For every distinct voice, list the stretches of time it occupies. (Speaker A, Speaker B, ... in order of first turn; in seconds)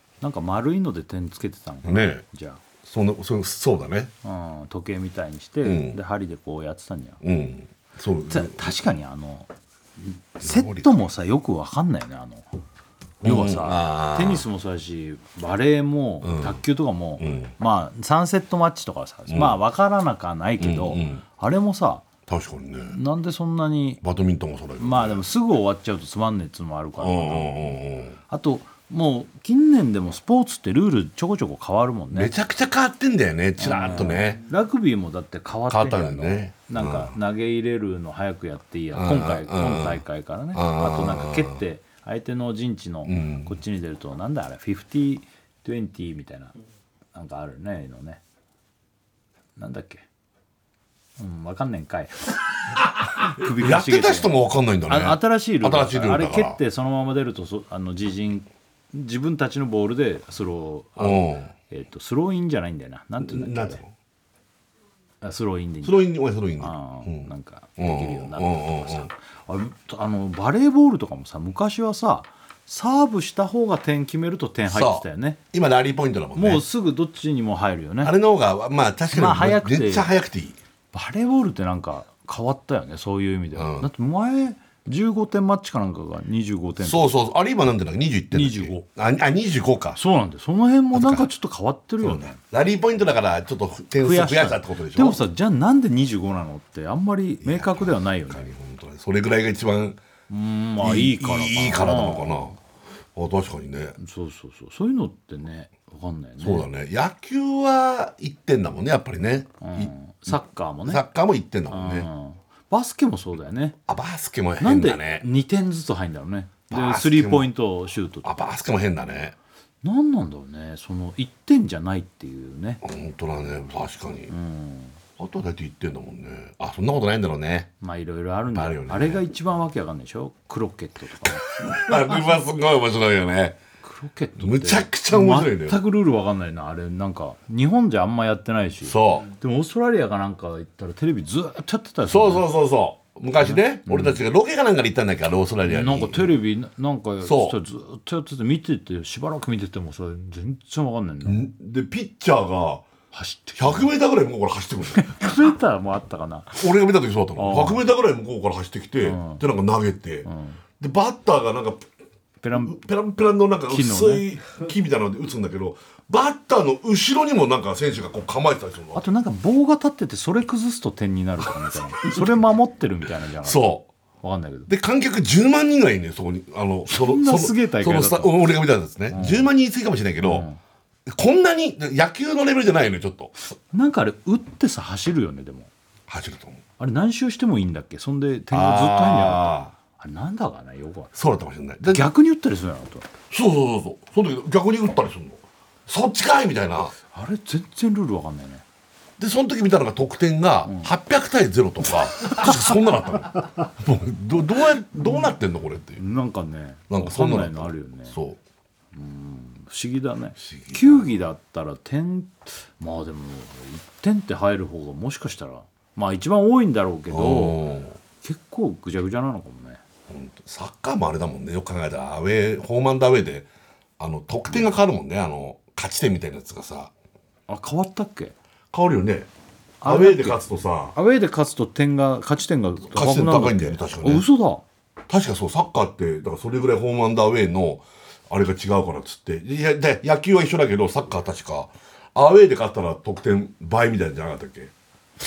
Speaker A: 0.2-2.6, 4.2-7.2, 8.3-12.5, 13.2-22.1, 22.9-24.0, 24.8-27.7, 28.3-32.3, 33.6-46.5, 47.1-48.2, 49.6-50.0, 51.2-52.4, 53.2-54.3, 54.9-63.8, 65.2-66.0, 66.6-75.4, 76.3-78.1, 79.1-80.1, 80.9-87.2, 88.3-88.8, 90.0-92.4, 94.0-98.5, 100.3-102.5, 104.0-106.7, 109.6-111.0, 111.7-113.8, 114.6-118.4, 119.8-122.8, 124.3-125.0, 127.8-131.5, 133.8-142.5, 143.4-144.2, 145.7-151.4, 153.1-153.9, 154.9-156.6, 157.4-157.8, 159.0-159.4, 160.2-160.6, 162.4-162.8, 163.7-164.3, 168.9-173.7, 174.2-174.7, 176.9-178.4, 179.1-179.5, 180.2-180.6, 183.7-185.7, 186.8-191.1, 191.8-193.1, 197.1-198.6, 206.0-208.2, 208.9-217.6, 218.2-219.8, 227.5-228.3, 229.8-230.4, 230.9-234.6
Speaker B: 1.9-2.2, 2.8-4.1, 5.6-6.0, 7.2-8.8, 10.4-11.1, 13.2-14.4, 16.2-16.6, 17.2-17.5, 19.3-19.6, 20.6-21.2, 22.3-22.9, 24.0-25.2, 27.0-28.2, 32.1-34.4, 35.7-37.1, 38.9-40.0, 40.5-41.6, 43.1-43.6, 53.4-56.6, 61.0-61.5, 63.2-63.9, 65.8-69.1, 74.7-76.7, 78.0-80.6, 83.6-83.9, 86.8-90.0, 90.9-91.3, 92.0-95.2, 97.4-100.0, 100.8-102.5, 103.2-104.0, 106.4-112.1, 113.9-115.3, 116.7-117.5, 118.2-119.4, 122.8-124.3, 125.2-127.7, 128.5-129.2, 131.2-133.6, 134.4-135.8, 138.8-139.3, 142.1-146.3, 147.2-147.6, 151.2-152.9, 153.6-155.4, 156.6-160.3, 160.8-161.8, 162.6-169.0, 173.4-173.9, 174.7-180.5, 181.1-183.3, 186.1-186.6, 188.5-189.7, 191.2-192.1, 193.3-196.9, 199.2-206.0, 206.9-208.4, 210.4-211.1, 217.1-218.0, 220.1-223.5, 224.0-226.9, 228.7-229.3, 229.8-230.9, 232.9-234.3, 235.1-244.7